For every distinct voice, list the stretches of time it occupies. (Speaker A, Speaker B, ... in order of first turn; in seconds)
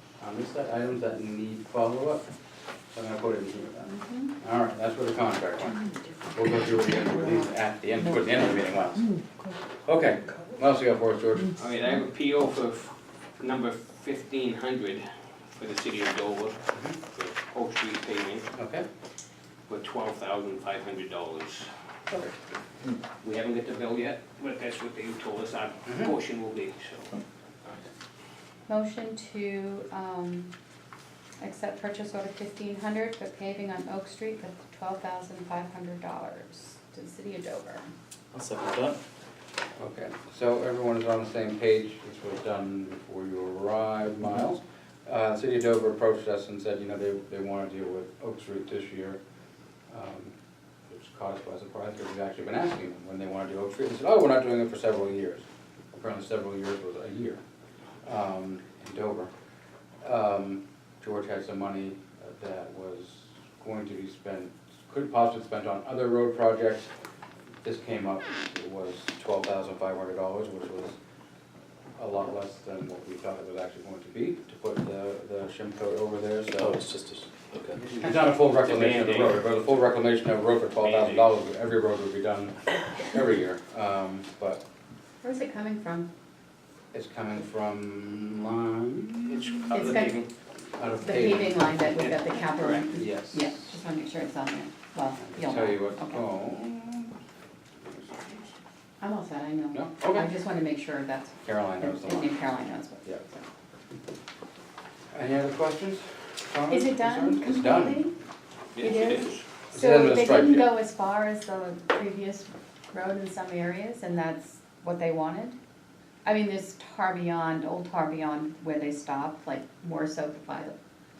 Speaker A: 0.2-2.2, 2.9-9.1, 9.8-11.6, 16.7-17.0, 18.5-18.9, 39.8-49.2, 49.9-50.3, 50.9-57.4, 58.0-59.3, 60.0-66.9, 67.6-70.9, 72.0-76.8, 78.0-84.6, 86.9-90.0, 90.8-91.7, 93.0-93.7, 95.2-97.1, 99.7-100.3, 101.4-102.3, 105.1-108.1, 109.7-110.7
Speaker B: 3.9-4.3, 28.7-30.5, 31.4-37.9, 85.2-86.1, 89.7-90.2, 91.0-96.2, 99.0-103.4, 106.7-108.1, 108.8-115.5, 116.2-120.7
Speaker C: 11.6-18.5, 19.7-21.7, 23.2-27.2, 77.8-79.4, 80.8-81.3, 89.3-90.3, 92.0-92.9, 108.7-109.5
Speaker D: 38.3-39.0, 76.5-77.8